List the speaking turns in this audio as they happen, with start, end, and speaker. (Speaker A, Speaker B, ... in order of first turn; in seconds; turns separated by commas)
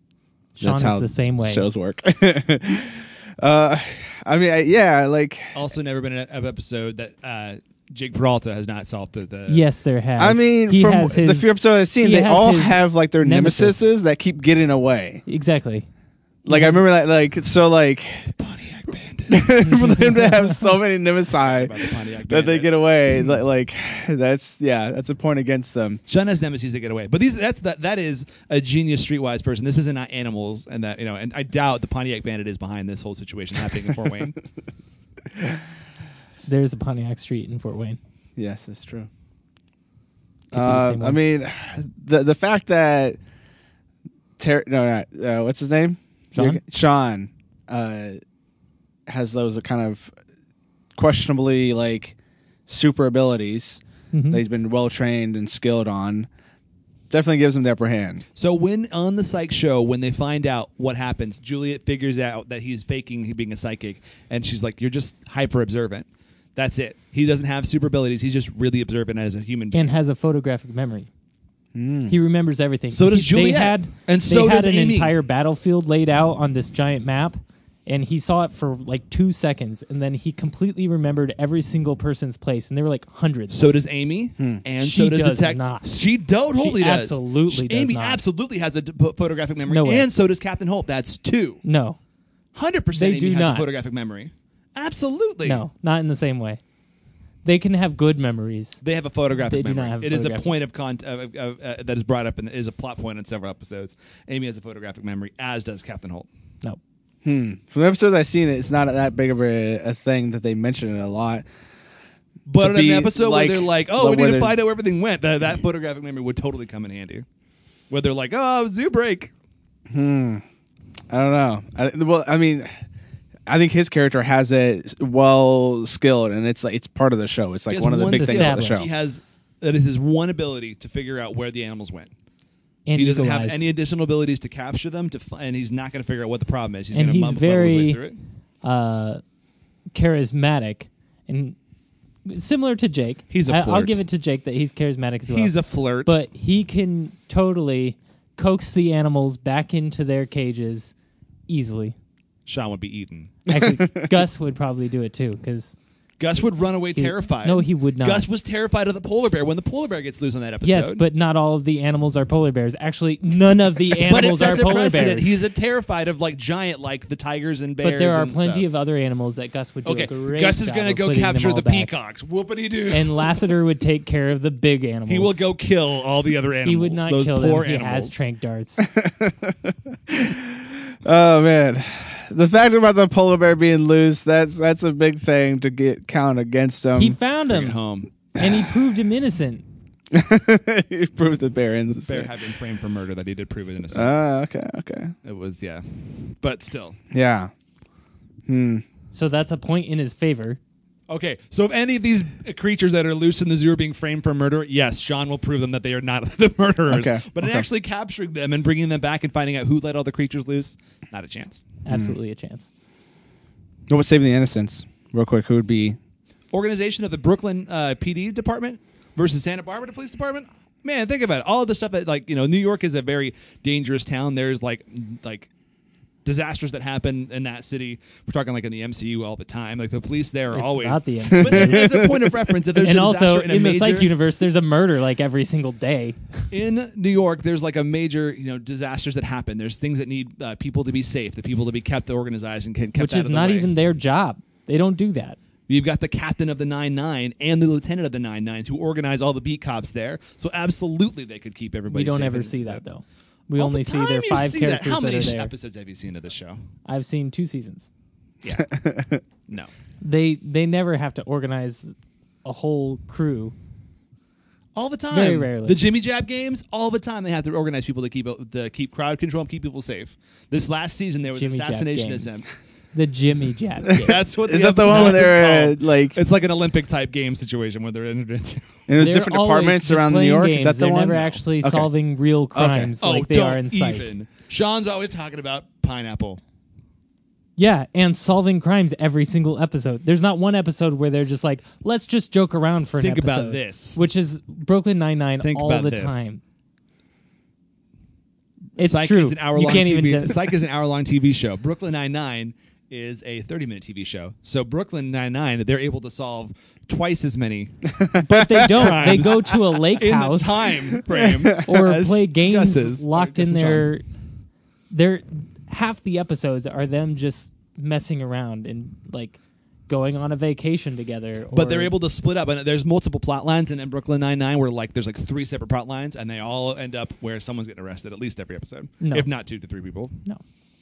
Speaker A: 0.6-1.7, Speaker B: 0.6-5.6, Speaker C: 5.5-9.6, Speaker A: 9.5-13.9, Speaker B: 10.2-15.2, Speaker A: 15.3-15.8, Speaker B: 16.4-18.3, Speaker A: 16.5-16.8, Speaker C: 18.3-19.6, Speaker B: 19.3-26.0, Speaker A: 19.6-20.7, Speaker C: 21.4-22.7, Speaker C: 26.1-34.4, Speaker A: 36.5-38.0, Speaker B: 38.4-39.1, Speaker A: 40.5-41.2, Speaker B: 40.5-43.2, Speaker B: 44.4-48.2, Speaker A: 46.3-46.6, Speaker B: 49.1-50.1, Speaker B: 51.0-52.1, Speaker B: 52.7-56.3, Speaker A: 54.1-54.4, Speaker B: 57.1-58.2, Speaker C: 58.3-69.9, Speaker A: 69.7-71.1, Speaker B: 71.7-72.1, Speaker A: 72.1-83.7, Speaker C: 72.9-75.1, Speaker C: 83.5-91.6, Speaker A: 84.8-85.9, Speaker A: 86.5-88.2, Speaker A: 89.7-90.1, Speaker A: 91.6-92.0, Speaker C: 92.5-95.6, Speaker A: 92.9-93.7, Speaker A: 95.4-96.6, Speaker A: 97.4-98.8, Speaker C: 98.8-106.3, Speaker A: 99.4-100.5, Speaker B: 107.2-111.4, Speaker C: 112.5-117.2, Speaker B: 112.6-114.5, Speaker C: 117.9-119.3, Speaker B: 119.9-120.4, Speaker B: 121.1-122.7, Speaker B: 123.5-128.9, Speaker C: 127.7-132.1, Speaker A: 128.1-128.8, Speaker A: 132.8-133.6, Speaker C: 132.9-138.2, Speaker A: 136.9-138.0, Speaker A: 138.6-139.2, Speaker A: 139.9-141.6, Speaker A: 142.2-145.5, Speaker C: 143.3-144.0, Speaker C: 145.3-146.1, Speaker A: 146.0-150.9, Speaker A: 151.5-151.9, Speaker C: 152.4-153.4, Speaker A: 153.5-155.8, Speaker B: 153.5-154.1, Speaker C: 156.2-161.0, Speaker A: 156.9-158.3, Speaker A: 160.6-165.3, Speaker C: 164.0-168.7, Speaker A: 167.8-171.9, Speaker C: 169.8-173.4, Speaker A: 172.9-175.4, Speaker C: 175.1-178.2, Speaker A: 176.6-178.9, Speaker B: 178.8-187.2, Speaker A: 186.9-187.8, Speaker C: 187.5-188.1, Speaker A: 188.3-189.6, Speaker B: 188.4-188.6, Speaker B: 190.1-192.3, Speaker C: 192.1-194.1, Speaker B: 193.9-195.1, Speaker C: 195.2-197.0, Speaker B: 197.1-197.5, Speaker B: 198.5-198.8, Speaker A: 199.1-200.6, Speaker C: 201.1-211.6, Speaker B: 206.9-207.7, Speaker A: 211.8-212.7, Speaker B: 211.9-212.1, Speaker B: 213.9-216.0, Speaker C: 216.5-225.5, Speaker C: 226.2-234.1, Speaker A: 230.5-232.1, Speaker B: 231.3-232.5, Speaker A: 232.8-236.5, Speaker C: 236.5-243.7, Speaker A: 242.9-245.4, Speaker C: 245.7-252.8, Speaker A: 251.9-255.5, Speaker C: 253.6-256.6, Speaker A: 256.9-257.9, Speaker B: 258.4-259.2, Speaker A: 260.0-263.5, Speaker C: 264.7-272.5, Speaker A: 265.1-265.8, Speaker A: 271.3-272.3, Speaker A: 272.9-274.2, Speaker C: 273.9-278.7, Speaker B: 274.3-276.1, Speaker A: 274.9-275.3, Speaker B: 278.9-281.9, Speaker A: 279.0-284.1, Speaker C: 281.1-281.4, Speaker B: 282.5-282.9, Speaker C: 283.0-286.4, Speaker A: 287.6-296.4, Speaker C: 293.0-294.0, Speaker C: 295.4-296.3, Speaker C: 298.8-307.9, Speaker A: 298.8-300.5, Speaker B: 308.0-309.2, Speaker A: 308.1-310.7, Speaker C: 308.6-313.9, Speaker B: 310.9-311.6, Speaker A: 311.6-314.0, Speaker A: 314.9-321.9, Speaker C: 321.5-330.2, Speaker A: 329.0-329.3